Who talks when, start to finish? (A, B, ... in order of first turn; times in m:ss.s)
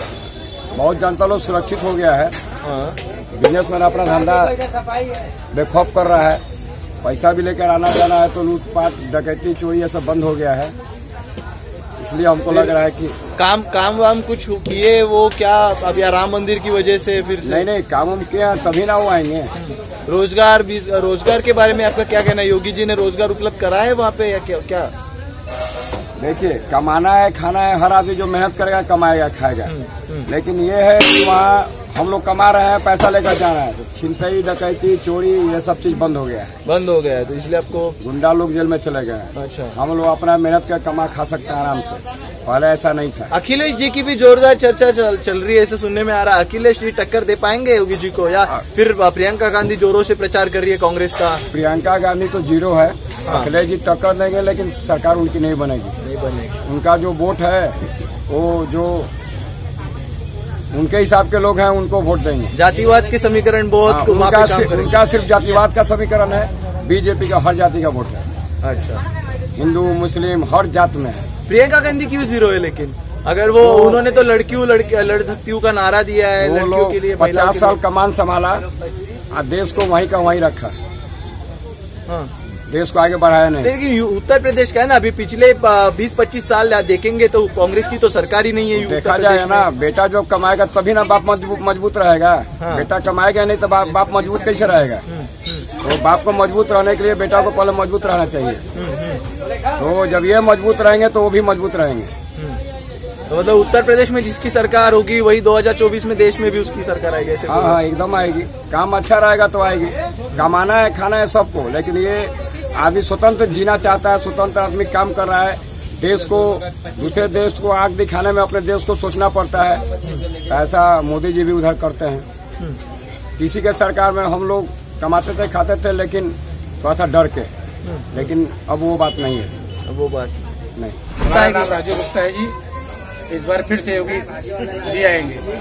0:00.7-0:02.3 A
0:02.6-0:03.0 B
0:03.3-0:04.5 A
0:05.5-0:06.4 A
0:07.0-0:10.7 A
0:12.0-0:13.2 A
0:12.5-0:12.8 B
0:13.4-0:17.6 B
0:17.4-0:19.5 A
0:19.6-0:24.9 B
0:26.2-0:29.7 A
0:29.6-0:30.3 B
0:30.3-0:36.5 A
0:36.6-0:38.0 B
0:38.0-0:43.3 A
0:39.4-0:39.7 B
0:43.3-0:51.4 B
0:51.5-0:55.9 A
0:53.3-0:53.6 B
0:56.0-0:56.6 B
0:56.6-0:57.8 A
0:58.3-0:59.1 A
1:00.7-1:02.5 A
1:02.5-1:05.0 B
1:03.8-1:08.2 A
1:08.6-1:09.0 B
1:09.6-1:11.2 A
1:11.5-1:17.8 B
1:13.6-1:14.0 A
1:16.4-1:18.7 A
1:19.3-1:20.7 A
1:22.7-1:23.7 A
1:23.6-1:29.7 B
1:28.7-1:35.0 A
1:32.6-1:32.9 B
1:35.0-1:35.7 B
1:35.8-1:38.6 A
1:38.7-1:39.2 B
1:39.8-1:42.1 A
1:43.3-1:47.8 B
1:47.5-1:59.8 A
2:00.5-2:02.2 A
2:03.4-2:07.5 A
2:07.8-2:08.3 B
2:08.1-2:09.5 A
2:09.8-2:10.4 B
2:11.2-2:12.5 C
2:11.2-2:11.8 B
2:13.3-2:14.3 C
2:14.8-2:15.4 C